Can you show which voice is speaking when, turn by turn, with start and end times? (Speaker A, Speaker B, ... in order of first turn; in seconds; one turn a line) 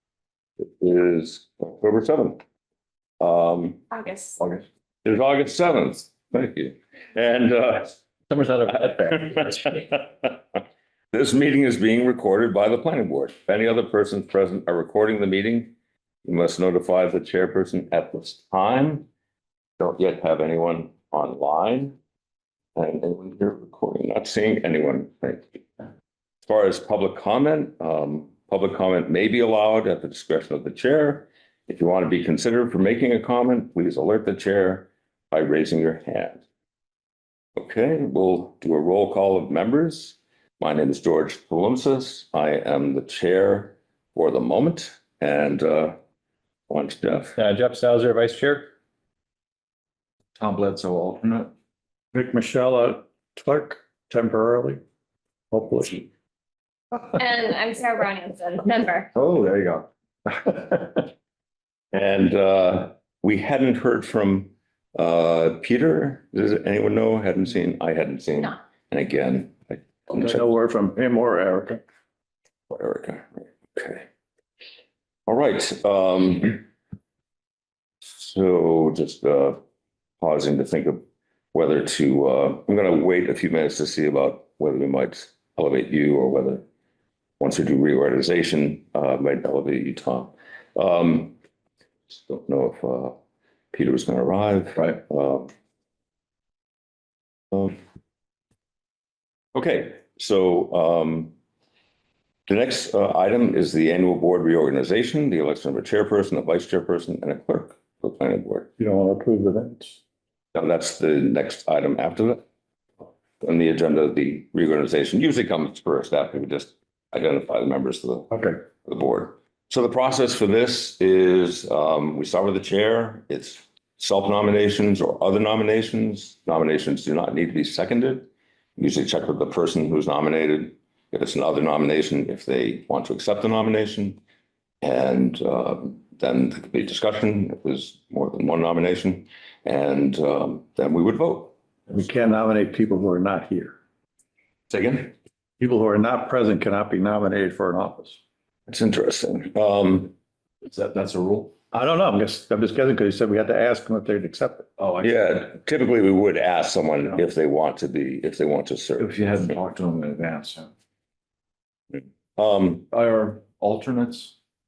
Speaker A: 0.6-2.4
Speaker A: 3.2-3.8
Speaker B: 3.9-4.4
Speaker A: 5.0-8.0
Speaker C: 8.3-9.6
Speaker A: 8.7-10.4
Speaker A: 11.1-15.7
Speaker A: 16.2-19.1
Speaker A: 19.8-22.0
Speaker A: 22.8-25.6
Speaker A: 26.4-36.4
Speaker A: 37.5-46.0
Speaker A: 46.7-47.4
Speaker C: 47.4-48.7
Speaker D: 50.4-51.5
Speaker E: 52.1-54.8
Speaker E: 55.5-56.0
Speaker B: 57.1-59.1
Speaker D: 59.1-59.9
Speaker D: 60.4-61.0
Speaker A: 61.9-70.5
Speaker E: 70.1-71.8
Speaker A: 72.7-74.0
Speaker A: 75.3-76.6
Speaker A: 78.0-79.6
Speaker A: 80.2-81.0
Speaker A: 81.5-86.6
Speaker A: 87.4-91.3
Speaker A: 92.1-93.2
Speaker A: 93.7-95.5
Speaker A: 97.5-97.8
Speaker A: 99.5-101.3
Speaker A: 102.5-108.7
Speaker E: 108.8-110.0
Speaker A: 110.5-112.4
Speaker A: 113.4-134.2
Speaker A: 134.8-141.5
Speaker E: 141.9-143.8
Speaker A: 144.7-145.1
Speaker E: 145.6-148.2
Speaker A: 148.7-150.1
Speaker D: 150.6-151.5
Speaker E: 151.7-154.7
Speaker D: 154.8-155.2
Speaker A: 155.0-159.1
Speaker D: 159.0-160.7
Speaker A: 162.3-162.9
Speaker D: 162.9-164.3